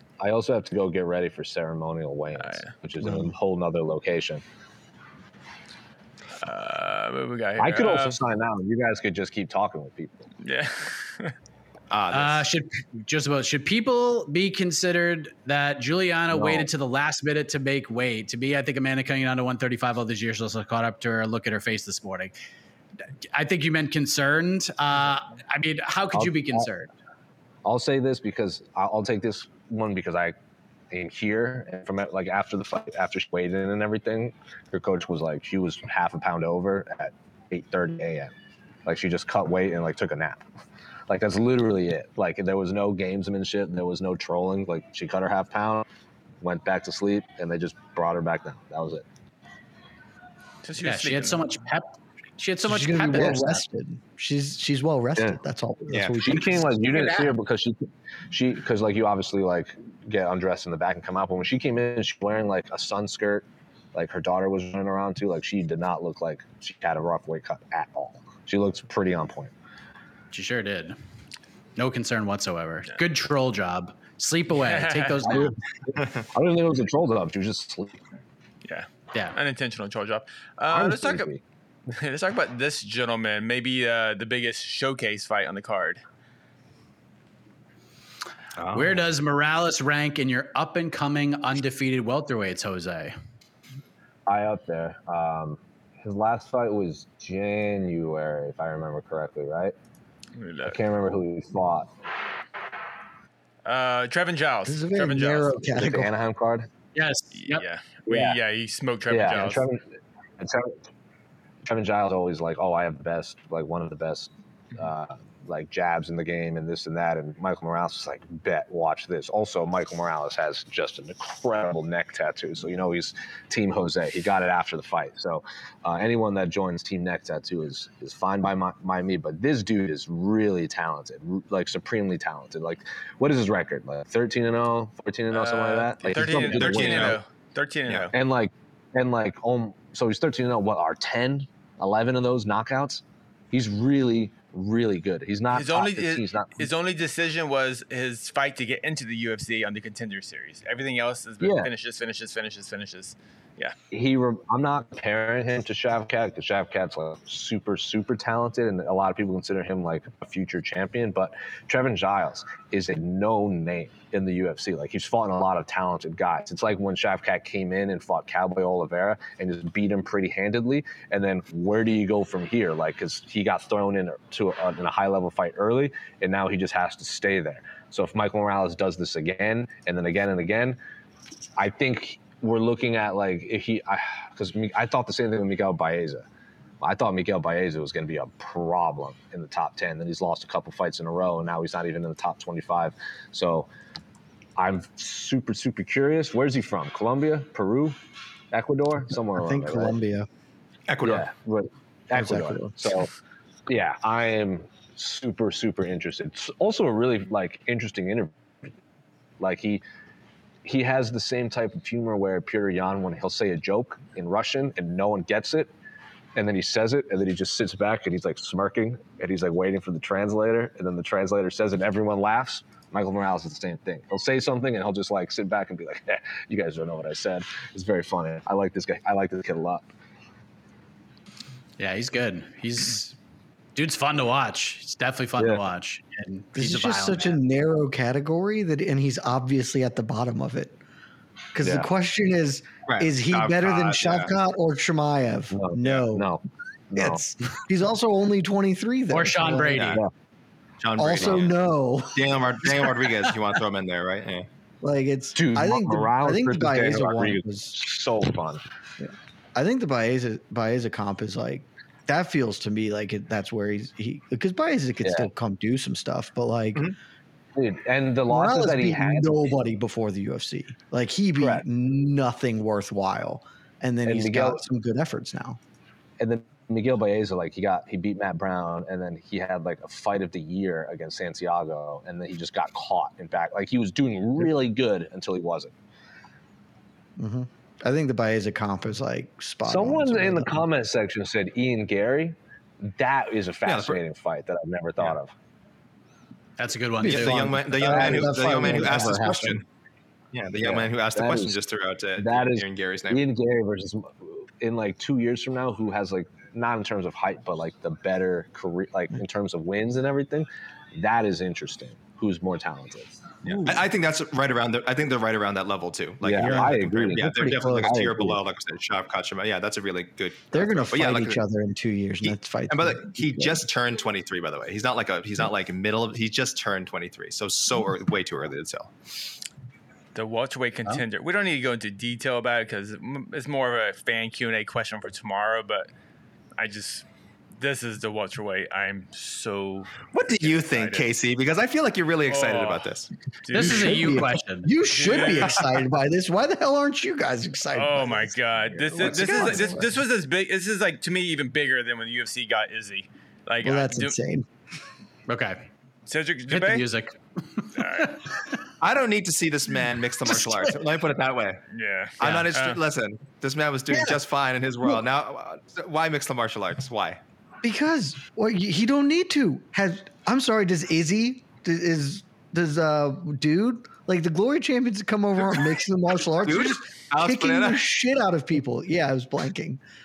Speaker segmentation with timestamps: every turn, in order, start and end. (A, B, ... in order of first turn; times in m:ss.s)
0:00.2-0:04.4 A
0:02.4-0:02.7 B
0:06.4-0:08.2 B
0:07.6-0:10.3 A
0:10.4-0:11.3 B
0:11.9-0:12.4 C
0:12.1-0:22.3 D
0:16.3-0:16.7 A
0:23.3-0:26.9 D
0:26.1-0:26.6 A
0:27.6-0:30.4 A
0:30.9-0:38.3 A
0:38.8-0:40.4 A
0:41.1-0:45.8 A
0:46.4-0:49.0 A
0:50.6-0:51.4 B
0:50.8-0:53.6 D
0:52.6-0:57.2 E
0:55.9-0:56.2 C
0:56.1-1:09.5 A
1:10.3-1:11.0 D
1:11.8-1:15.6 D
1:14.6-1:15.4 B
1:15.2-1:18.0 A
1:18.6-1:21.3 B
1:20.7-1:21.4 A
1:21.9-1:26.0 B
1:28.6-1:29.0 C
1:28.7-1:33.1 D
1:34.3-1:39.7 A
1:40.4-1:40.8 B
1:40.6-1:41.9 A
1:43.6-1:45.7 B
1:44.6-1:46.1 E
1:45.7-1:46.7 A
1:46.9-1:47.6 D
1:47.3-1:49.7 B
1:48.1-1:48.4 A
1:49.1-1:49.8 A
1:50.4-1:50.8 A
1:51.6-2:17.2 A
2:15.3-2:18.1 B
2:16.1-2:17.2 C
2:18.1-2:26.7 A
2:25.5-2:33.8 B
2:31.4-2:31.7 A
2:33.9-3:00.8 A
3:01.6-3:06.2 A
3:06.8-3:13.7 A
3:14.6-3:18.0 A
3:18.5-3:20.0 A
3:19.3-3:20.3 E
3:20.9-3:21.3 C
3:21.0-3:23.1 A
3:22.1-3:23.0 E
3:23.7-3:28.3 A
3:29.4-3:29.8 A
3:30.6-3:35.7 A
3:36.4-3:49.8 A
3:51.8-3:53.2 D
3:53.7-3:57.4 D
3:56.5-4:00.8 E
4:01.5-4:06.3 E
4:01.6-4:01.9 A
4:02.8-4:04.3 C
4:05.5-4:07.2 A
4:07.0-4:10.0 E
4:09.1-4:10.0 D
4:09.7-4:10.0 C
4:10.8-4:11.6 C
4:11.0-4:12.6 E
4:12.1-4:14.5 C
4:14.8-4:17.8 E
4:15.3-4:18.6 A
4:19.0-4:26.9 E
4:25.0-4:25.3 A
4:27.5-4:29.5 A
4:28.3-4:35.6 E
4:34.0-4:34.6 A
4:36.2-4:45.7 A
4:47.2-4:50.6 E
4:49.6-4:55.3 A
4:53.6-4:54.0 C
4:56.6-4:57.5 D
4:57.0-4:59.6 C
4:57.0-4:59.6 E
4:57.3-4:59.2 A
5:00.3-5:03.2 C
5:00.6-5:01.6 A
5:02.2-5:13.2 A
5:13.4-5:21.4 C
5:13.5-5:13.8 E
5:16.2-5:18.4 A
5:16.4-5:18.0 E
5:20.5-5:23.7 E
5:22.2-5:28.9 C
5:30.1-5:35.9 B
5:36.6-5:37.0 B
5:37.6-5:41.1 B
5:40.1-5:43.1 C
5:42.2-5:42.9 B
5:43.4-5:44.3 B
5:43.5-5:45.6 D
5:43.5-5:49.9 E
5:44.9-5:45.6 B
5:47.7-5:54.2 B
5:49.0-5:49.8 C
5:53.6-5:54.4 E
5:55.3-5:55.6 D
5:56.0-5:56.9 B
5:56.5-5:58.3 D
5:57.8-5:58.2 B
5:58.8-6:01.6 C
6:01.7-6:02.8 B
6:02.2-6:07.2 C
6:03.9-6:04.2 E
6:07.6-6:19.8 E
6:16.4-6:17.8 C